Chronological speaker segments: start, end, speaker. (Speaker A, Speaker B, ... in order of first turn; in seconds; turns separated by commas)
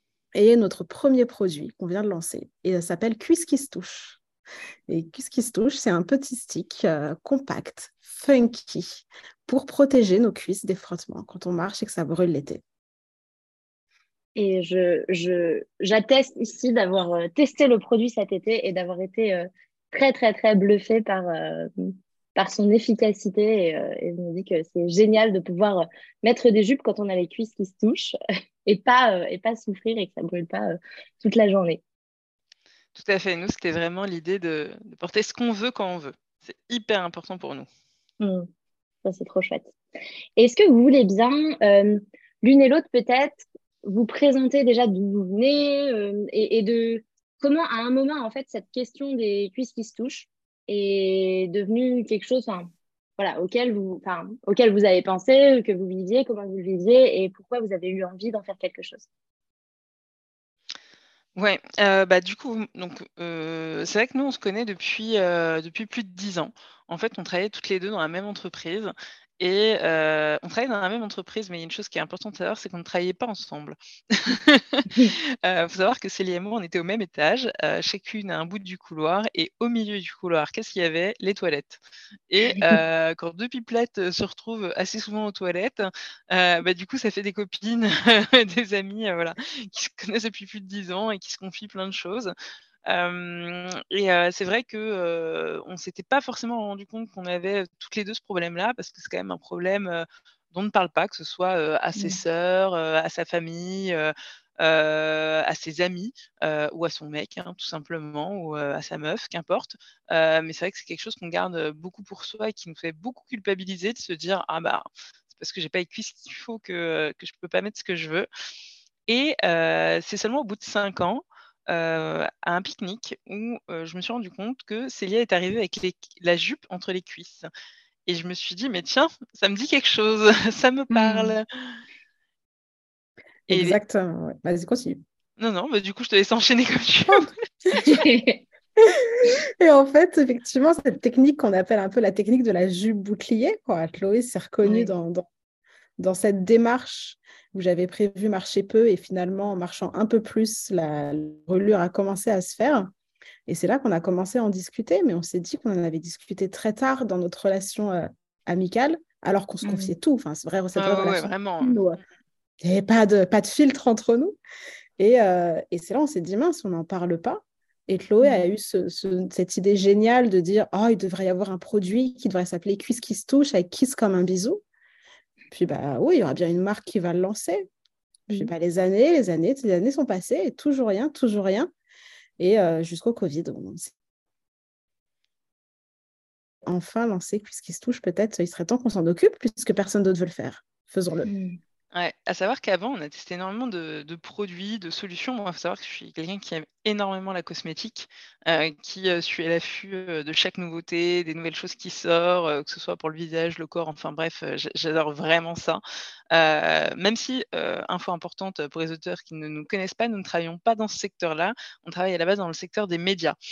Speaker A: 0.3-4.2, Speaker A: 4.9-12.6, Speaker B: 14.3-31.8, Speaker C: 32.9-37.7, Speaker B: 38.2-38.5, Speaker B: 39.0-39.7, Speaker B: 40.4-59.1, Speaker C: 61.4-92.3, Speaker B: 82.5-82.8, Speaker C: 92.9-118.3, Speaker C: 119.1-127.5, Speaker C: 128.1-131.8, Speaker B: 130.9-131.3, Speaker C: 133.5-133.8, Speaker A: 133.5-135.0, Speaker C: 135.4-137.3, Speaker B: 137.7-138.4, Speaker A: 138.8-145.3, Speaker B: 144.6-144.9, Speaker A: 146.0-152.9, Speaker A: 153.5-162.0, Speaker B: 159.6-159.9, Speaker C: 160.8-161.8, Speaker A: 162.6-164.4, Speaker A: 165.0-174.6, Speaker B: 168.2-168.5, Speaker A: 175.5-177.7, Speaker A: 178.3-181.7, Speaker A: 182.4-183.9, Speaker A: 186.6-191.3, Speaker B: 191.2-191.6, Speaker C: 191.9-213.3